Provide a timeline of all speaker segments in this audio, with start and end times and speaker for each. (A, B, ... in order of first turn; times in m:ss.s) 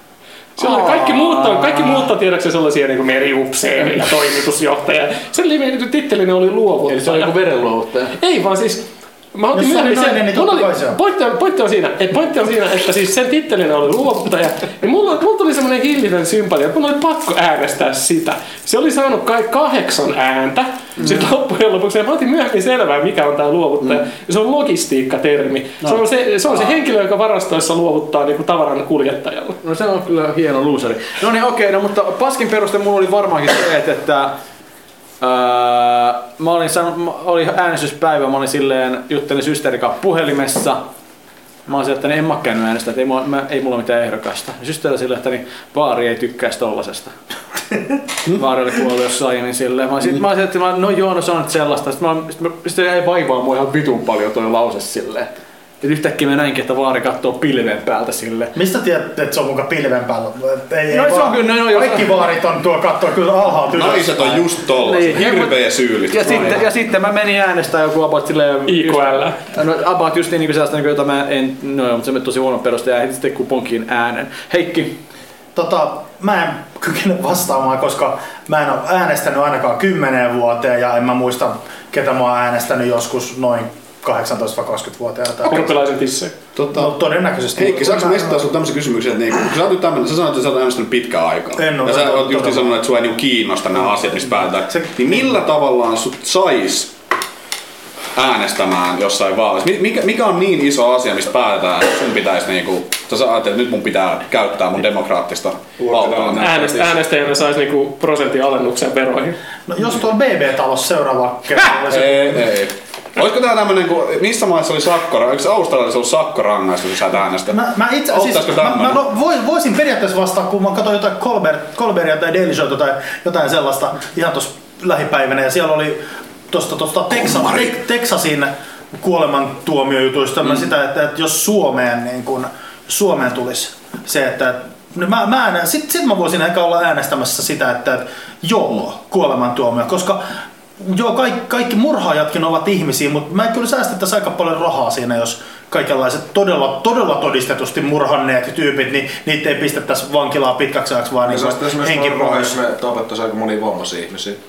0:00.6-0:07.3 A
0:00.6-0:02.1 B
0:06.8-0:08.2 B
0:08.2-0:29.6 A
0:09.5-0:11.0 C
0:29.6-0:34.4 B
0:35.2-0:40.8 B
0:41.7-0:47.1 B
0:48.2-0:58.5 B
0:58.5-1:04.4 C
1:00.9-1:02.2 B
1:03.7-1:06.7 D
1:04.8-1:15.0 B
1:08.6-1:09.4 A
1:15.5-1:25.8 C
1:25.5-1:26.3 A
1:26.6-1:26.9 D
1:26.7-1:28.4 C
1:27.5-1:36.9 D
1:31.6-1:32.8 C
1:34.7-1:35.2 C
1:38.1-1:46.9 D
1:45.8-1:46.8 E
1:46.4-1:49.4 A
1:49.7-1:52.4 C
1:51.8-1:59.0 D
1:57.5-2:20.2 C
2:07.1-2:07.8 D
2:20.8-2:32.5 C
2:31.3-2:34.4 E